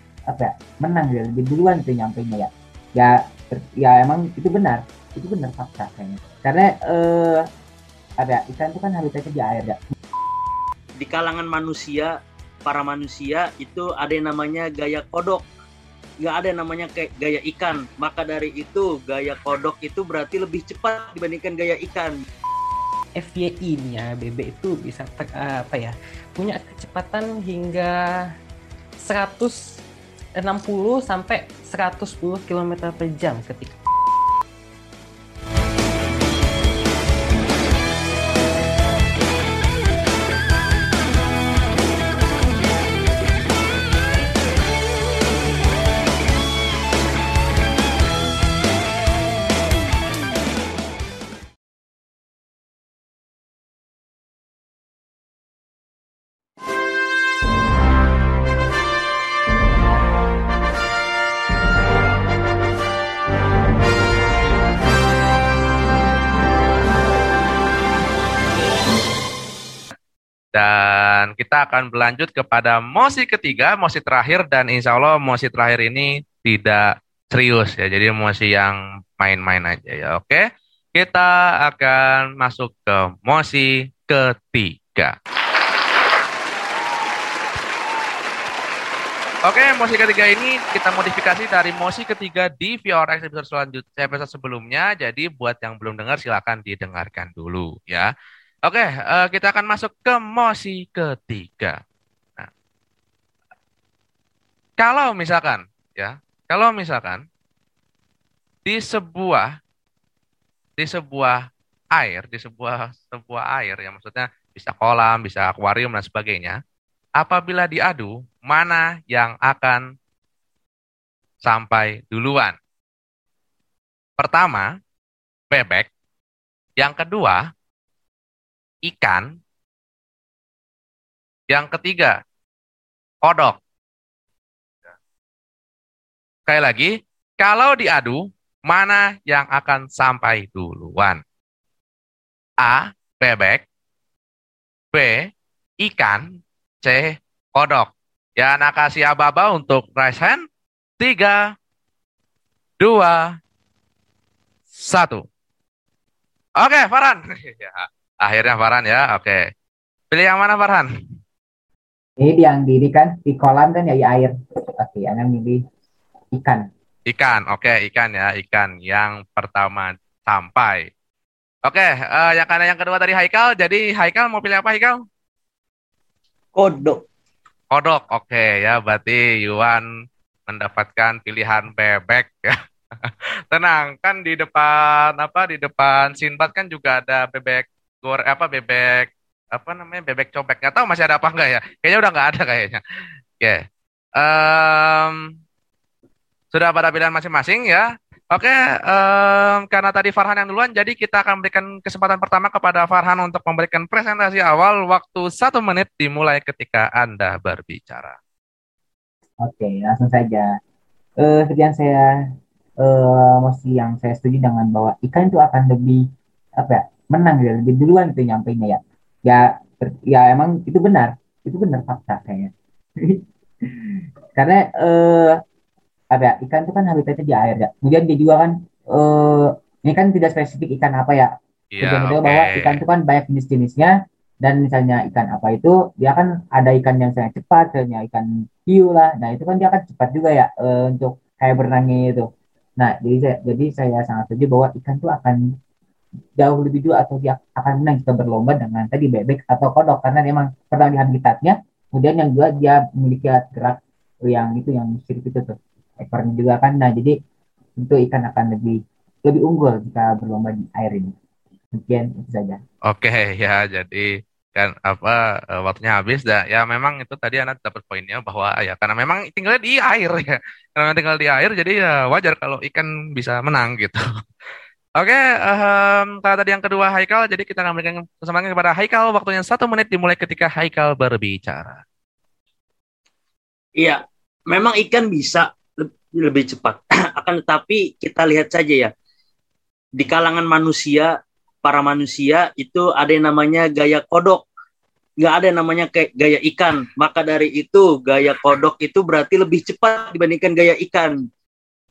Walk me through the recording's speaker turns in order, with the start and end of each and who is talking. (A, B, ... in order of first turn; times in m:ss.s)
0:00.3-0:07.4 A
0:08.2-0:09.8 A
0:11.0-0:15.4 B
0:16.2-0:22.2 B
0:23.2-0:28.1 C
0:29.0-0:29.8 C
0:30.4-0:33.8 C
1:10.5-1:20.4 D
1:21.0-1:25.1 D
1:29.5-1:38.1 D
1:38.6-1:41.8 D
1:44.8-1:47.2 D
1:48.6-1:49.5 D
1:50.8-1:51.4 D
1:51.9-1:56.6 D
1:57.2-1:59.8 D
2:01.4-2:02.5 D
2:04.2-2:04.6 D
2:05.5-2:05.9 D
2:06.8-2:07.4 D
2:08.8-2:09.2 D
2:11.5-2:12.1 D
2:13.2-2:13.6 D
2:16.5-2:21.2 D
2:22.6-2:23.6 D
2:24.9-2:25.3 D
2:25.8-2:26.2 D
2:26.8-2:30.4 D
2:31.0-2:31.4 D
2:32.8-2:33.3 D
2:34.8-2:35.2 D
2:36.6-2:39.4 D
2:40.1-2:40.9 D
2:42.2-2:45.6 A
2:46.3-2:46.6 A
2:47.1-2:50.8 D
2:51.6-2:55.0 D
2:56.5-2:57.0 B
2:57.7-2:59.8 D
3:00.5-3:12.8 D
3:14.2-3:15.3 D
3:16.5-3:28.2 D
3:29.4-3:30.5 A
3:31.2-3:32.0 A
3:32.8-3:36.0 A
3:36.6-3:45.3 A
3:46.1-3:53.9 A
3:51.7-3:52.8 D
3:54.4-4:02.2 A
4:02.8-4:05.4 A
4:06.4-4:17.1 A
4:17.8-4:21.1 A
4:21.7-4:22.6 A
4:22.9-4:34.0 D
4:35.0-4:41.8 D
4:43.8-4:48.9 B
4:50.0-4:54.4 B
4:55.2-5:01.2 B